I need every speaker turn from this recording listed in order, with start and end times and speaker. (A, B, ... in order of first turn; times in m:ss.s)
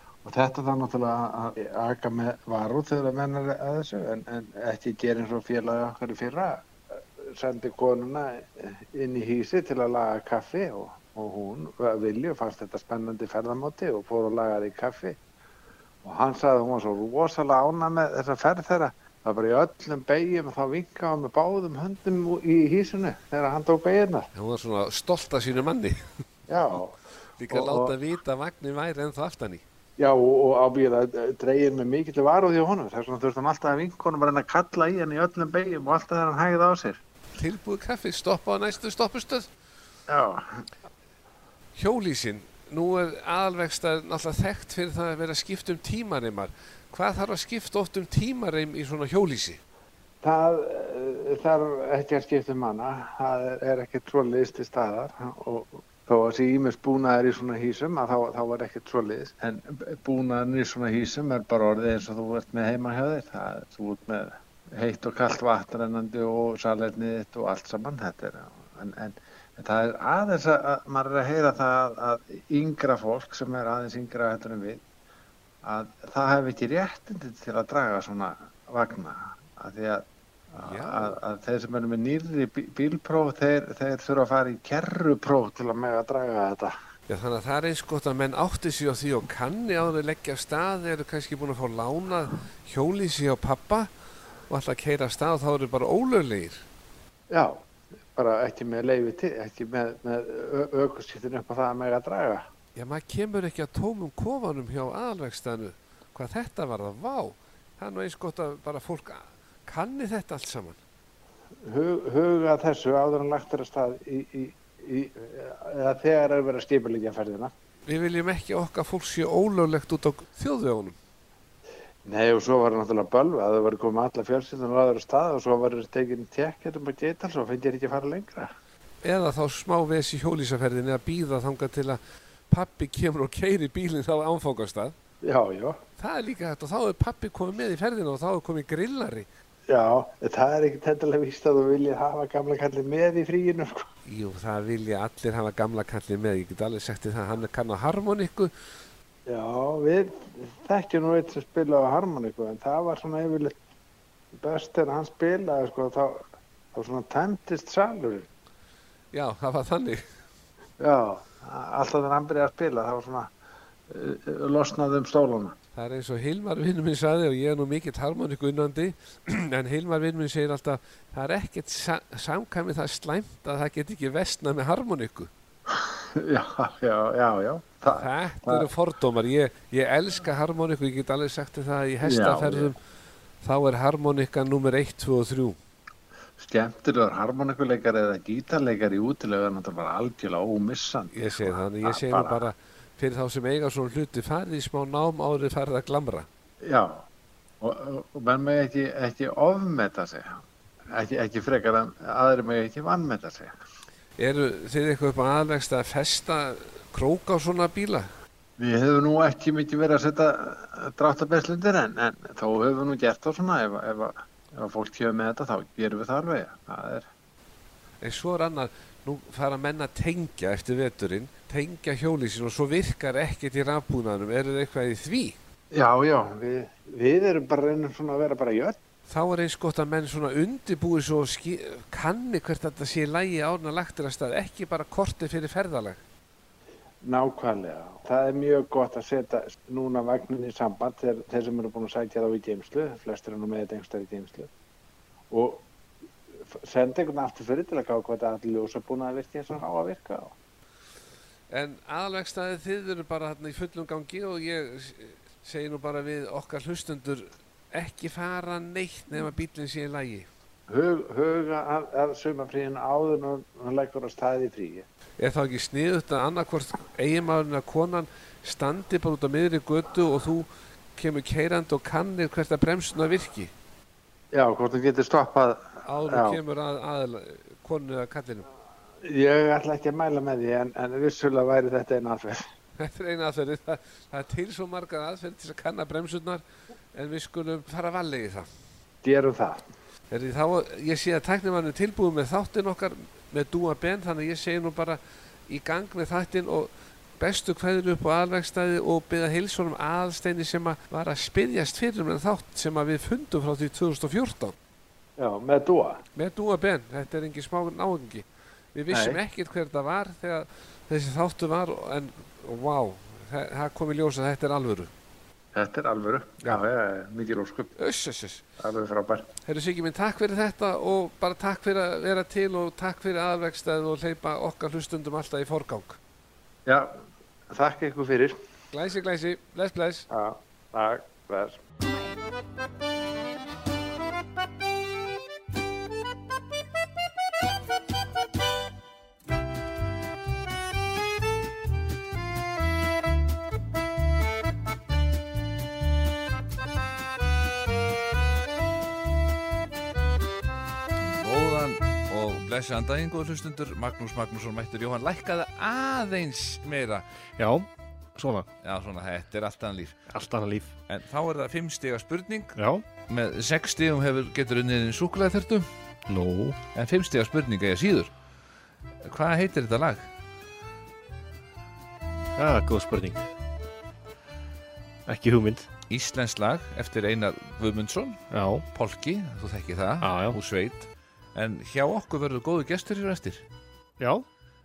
0:00.2-0:06.6 A
0:07.3-0:15.2 A
0:16.0-0:24.3 A
0:24.3-0:26.2 B
0:26.5-0:27.0 A
0:27.4-0:29.6 B
0:27.5-0:27.9 A
0:30.0-0:37.0 A
0:37.3-0:39.5 B
0:40.1-0:40.6 A
0:41.8-0:49.6 B
0:50.2-1:14.8 A
1:15.6-1:26.7 A
1:20.6-1:21.1 C
1:27.1-1:33.9 B
1:34.5-1:36.6 B
1:37.3-1:37.6 A
1:38.2-1:42.4 A
1:42.7-1:50.8 B
1:51.6-1:57.5 A
1:57.8-2:01.0 B
2:02.0-2:08.5 A
2:09.0-2:14.9 B
2:15.2-2:15.8 A
2:16.0-2:19.3 B
2:19.7-2:23.9 A
2:24.1-2:28.5 B
2:29.3-2:33.5 A
2:34.3-2:36.2 A
2:36.7-2:38.3 A
2:39.1-2:40.0 B
2:40.8-2:43.3 A
2:43.9-2:45.6 A
2:45.8-2:55.3 B
2:55.7-2:58.7 A
2:57.9-3:02.8 B
3:02.0-3:02.7 A
3:03.4-3:05.6 B
3:06.4-3:12.4 A
3:11.1-3:16.3 B
3:16.6-3:17.0 A
3:17.6-3:23.5 A
3:24.2-3:28.1 B
3:28.6-3:37.1 A
3:38.0-3:45.4 B
3:45.7-3:48.8 A
3:49.1-3:56.0 B
3:57.0-4:04.5 A
4:05.3-4:05.6 A
4:06.5-4:10.3 A
4:11.5-4:20.3 B
4:20.7-4:24.9 A
4:25.2-4:33.5 B
4:34.3-4:36.4 A
4:35.8-4:38.4 B
4:39.0-4:42.4 A
4:42.8-4:46.4 B
4:46.9-4:48.6 B
4:49.0-4:49.6 A
4:50.1-5:04.5 B
5:05.2-5:06.0 A
5:06.1-5:14.9 B
5:08.9-5:09.2 A
5:15.5-5:17.7 A
5:17.8-5:18.4 B
5:18.6-5:19.3 A
5:19.4-5:26.0 B
5:26.6-5:26.9 A
5:27.5-5:28.4 A
5:28.7-5:30.0 B
5:30.1-5:31.6 A
5:51.0-5:57.0 C
5:57.4-5:58.4 D
5:58.6-6:00.0 C
6:00.1-6:00.7 D
6:00.9-6:02.6 C
6:02.6-6:02.8 D
6:03.1-6:05.7 C
6:06.1-6:06.6 D
6:06.7-6:08.1 C
6:09.0-6:10.1 C
6:12.4-6:13.2 D
6:15.0-6:15.6 D
6:15.9-6:23.4 C
6:18.3-6:18.6 D
6:20.0-6:20.4 D
6:24.0-6:24.2 D